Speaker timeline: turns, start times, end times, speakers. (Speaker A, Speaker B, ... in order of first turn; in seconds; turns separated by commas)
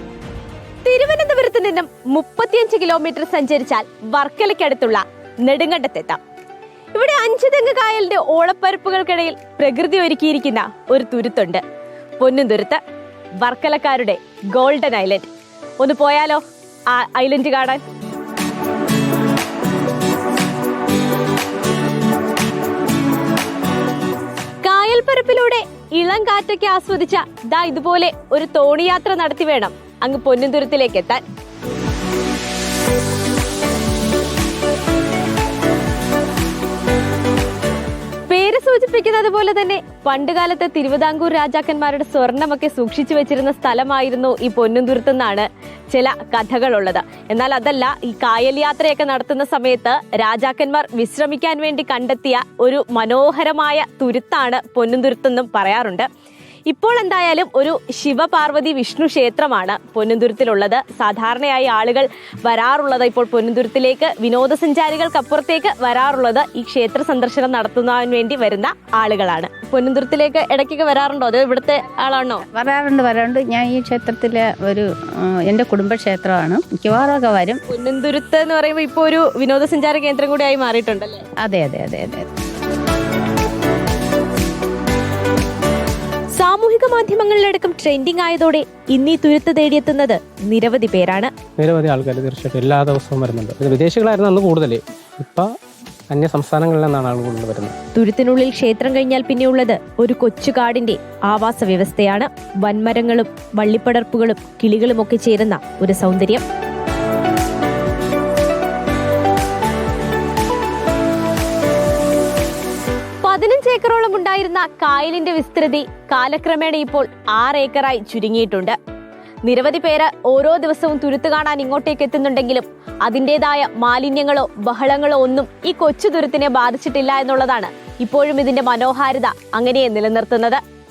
Speaker A: 0.8-6.2, Speaker A: 6.9-11.6, Speaker A: 12.2-12.8, Speaker A: 13.4-17.8, Speaker A: 24.6-31.2, Speaker A: 38.3-56.1, Speaker A: 56.7-72.5, Speaker B: 72.5-77.6, Speaker A: 77.7-81.2, Speaker B: 81.4-82.3, Speaker A: 86.3-91.3, Speaker C: 91.6-95.5, Speaker C: 96.1-97.8, Speaker A: 98.0-106.5, Speaker A: 113.2-118.8, Speaker A: 119.5-130.6